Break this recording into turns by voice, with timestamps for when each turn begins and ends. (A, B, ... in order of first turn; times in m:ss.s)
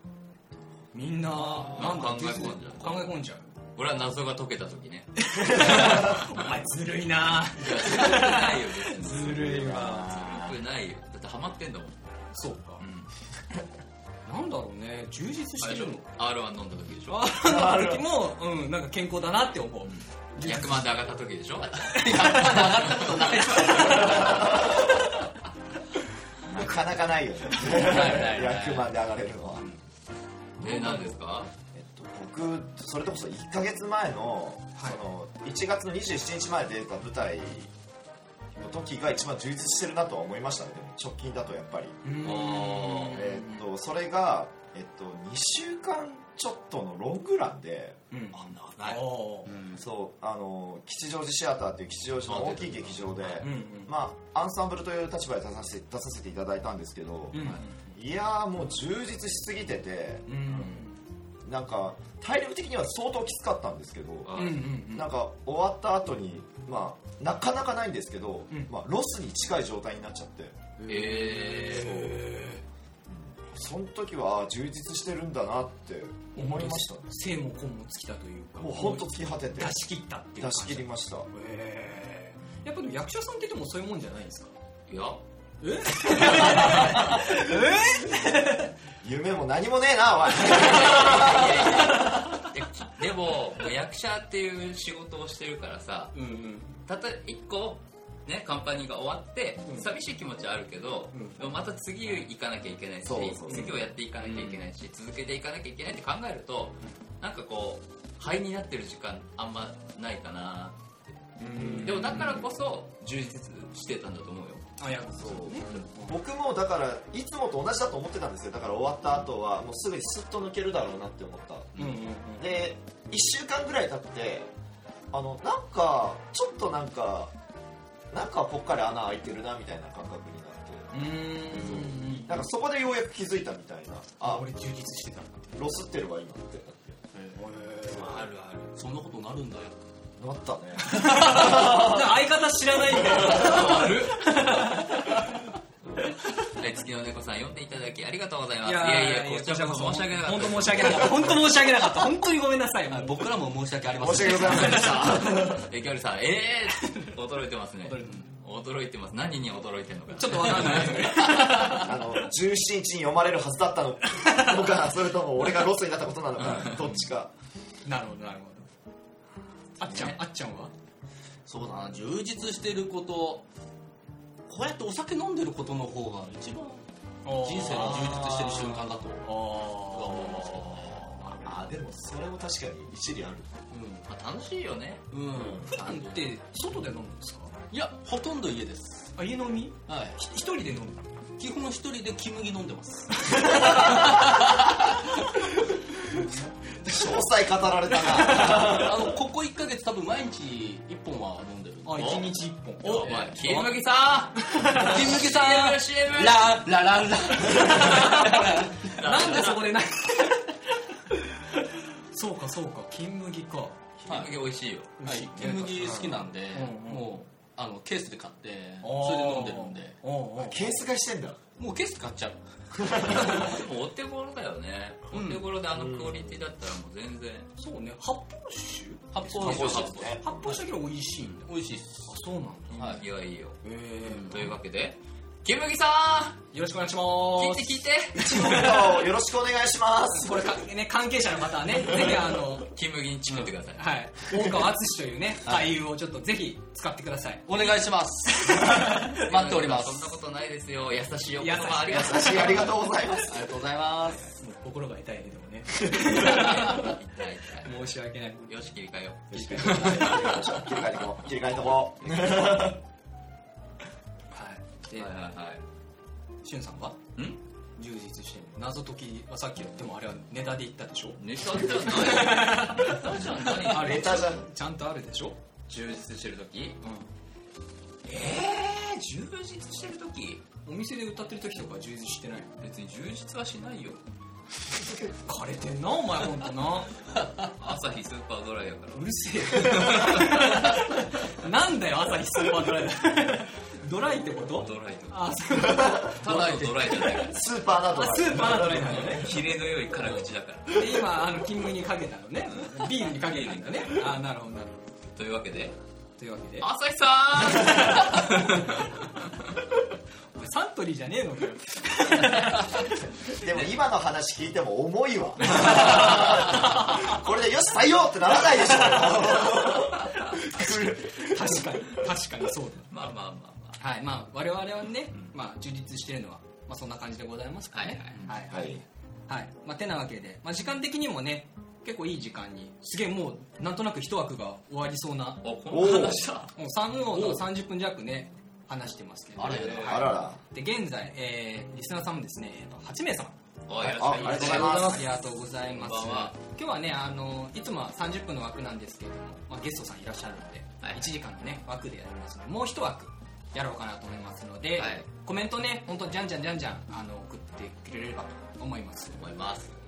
0:00.9-0:03.5 A
0:01.4-0:03.2 B
0:03.8-0:06.5 B
0:05.2-0:10.5 A
0:07.6-0:12.2 B
0:09.3-0:10.4 C
0:12.3-0:12.8 A
0:12.8-0:13.1 B
0:14.3-0:16.1 A
0:15.6-0:17.3 B
0:17.1-0:20.9 A
0:17.4-0:18.1 C
0:19.8-0:24.7 B
0:21.7-0:24.6 D
0:21.9-0:24.8 A
0:23.8-0:24.9 C
0:26.5-0:29.7 C
0:27.6-0:28.9 D
0:30.6-0:31.5 B
0:31.7-0:37.7 C
0:38.6-0:42.0 C
0:42.0-0:43.6 A
0:42.2-0:43.2 B
0:43.1-0:48.0 C
0:48.1-0:49.5 A
0:48.3-0:49.8 B
0:49.8-1:00.9 C
0:52.3-0:53.4 B
0:53.4-0:53.9 A
0:57.3-0:58.0 A
1:00.3-1:01.0 A
1:01.4-1:10.7 C
1:04.3-1:04.7 B
1:04.4-1:05.1 A
1:10.9-1:12.2 B
1:10.9-1:12.6 A
1:13.1-1:17.1 C
1:16.4-1:24.5 A
1:18.6-1:19.8 C
1:20.4-1:21.3 C
1:24.9-1:25.2 B
1:25.6-1:28.7 A
1:26.2-1:27.2 B
1:29.0-1:31.9 C
1:30.4-1:36.2 B
1:30.6-1:32.5 A
1:36.1-1:36.8 A
1:36.9-1:50.8 B
1:39.6-1:39.9 A
1:41.1-1:41.4 A
1:43.0-1:43.8 C
1:43.5-1:44.5 A
1:51.4-1:52.4 C
1:51.4-1:52.4 A
1:51.5-1:54.7 B
1:54.8-1:56.1 A
1:55.2-2:04.5 C
2:01.8-2:02.6 A
2:05.1-2:07.3 C
2:08.1-2:14.4 C
2:10.9-2:12.4 A
2:14.2-2:15.6 A
2:15.6-2:17.0 C
2:17.1-2:17.4 D
2:17.4-2:18.0 A
2:17.8-2:18.2 C
2:17.9-2:18.8 B
2:18.8-2:19.8 D
2:20.2-2:22.2 C
2:20.8-2:25.4 A
2:22.9-2:23.6 C
2:23.1-2:24.4 B
2:26.5-2:31.4 B
2:28.6-2:33.3 A
2:32.9-2:35.1 D
2:34.0-2:35.7 C
2:34.5-2:34.9 A
2:35.2-2:41.8 B
2:36.8-2:37.2 A
2:37.8-2:38.2 A
2:40.2-2:42.1 A
2:41.6-2:47.3 C
2:44.2-2:44.5 A
2:47.9-2:48.7 A
2:49.8-2:50.7 A
2:51.5-2:53.4 D
2:54.5-3:01.5 D
2:57.2-2:58.2 A
2:57.7-2:58.8 C
2:59.2-3:01.4 A
3:01.4-3:03.5 C
3:03.7-3:04.1 D
3:04.1-3:05.5 B
3:05.1-3:06.2 D
3:05.7-3:07.5 A
3:07.7-3:09.2 D
3:09.2-3:11.1 A
3:09.9-3:10.2 D
3:11.4-3:15.1 D
3:13.3-3:14.2 A
3:13.5-3:14.1 C
3:16.2-3:19.2 C
3:18.1-3:22.1 D
3:21.8-3:23.7 A
3:22.0-3:26.7 B
3:23.0-3:23.7 D
3:24.4-3:25.2 A
3:24.7-3:29.3 D
3:27.6-3:33.8 A
3:27.9-3:29.8 B
3:34.0-3:34.9 B
3:34.1-3:34.4 D
3:35.0-3:37.2 A
3:35.0-3:40.0 D
3:35.8-3:36.2 C
3:38.8-3:40.8 A
3:40.4-3:41.4 C
3:41.6-3:43.5 D
3:42.8-3:43.4 C
3:43.1-3:47.5 B
3:45.1-3:45.4 D
3:45.8-3:46.3 C
3:47.6-3:51.5 A
3:49.1-3:50.1 D
3:49.4-3:50.4 C
3:49.4-3:50.1 B
3:51.5-3:52.1 D
3:52.0-3:52.9 A
3:52.7-3:56.4 B
3:52.8-3:53.0 D
3:53.6-3:54.5 A
3:54.0-3:54.5 D
3:56.5-3:59.0 A
3:57.4-3:58.7 B
3:58.1-4:00.6 C
4:00.1-4:02.7 A
4:02.1-4:03.8 B
4:03.3-4:09.1 A
4:07.5-4:10.2 D
4:09.1-4:12.7 B
4:11.4-4:13.2 A
4:11.9-4:13.5 C
4:13.3-4:14.3 D
4:14.1-4:17.0 A
4:16.0-4:17.8 B
4:17.6-4:18.6 A
4:18.5-4:20.6 B
4:19.3-4:20.4 A
4:19.3-4:22.8 C
4:24.3-4:25.3 A
4:25.0-4:25.6 B
4:26.4-4:27.0 A
4:27.2-4:27.4 B
4:27.8-4:33.1 A
4:31.2-4:34.3 B
4:33.6-4:35.4 A
4:33.6-4:34.4 C
4:35.7-4:37.0 B
4:38.1-4:38.4 A
4:38.3-4:40.4 B
4:40.6-4:42.6 A
4:42.6-4:44.0 B
4:45.2-4:46.9 A
4:47.4-4:50.7 B
4:48.9-4:56.2 A
4:54.6-4:57.4 B
4:55.5-4:56.0 C
4:56.2-4:57.3 D
4:57.2-4:59.4 C
4:57.9-4:59.3 A
4:58.6-5:01.0 B
5:00.7-5:04.9 A
5:05.2-5:05.8 B
5:06.2-5:06.7 A
5:06.6-5:09.4 B
5:07.6-5:08.9 A
5:10.4-5:13.1 A
5:13.3-5:22.0 C
5:15.6-5:17.2 A
5:15.7-5:16.3 B
5:18.8-5:22.9 A
5:22.9-5:23.8 B
5:23.8-5:35.4 A
5:27.7-5:28.2 B
5:28.5-5:28.8 C
5:35.4-5:36.5 B
5:35.7-5:36.3 C
5:36.6-5:43.3 A
5:37.1-5:37.4 D
5:39.4-5:40.1 D
5:39.4-5:40.1 B
5:39.8-5:40.4 C
5:43.7-5:45.1 B
5:43.8-5:45.0 C
5:44.0-5:59.3 A
5:45.6-5:46.4 B
5:54.8-5:55.1 B
5:59.2-5:59.7 B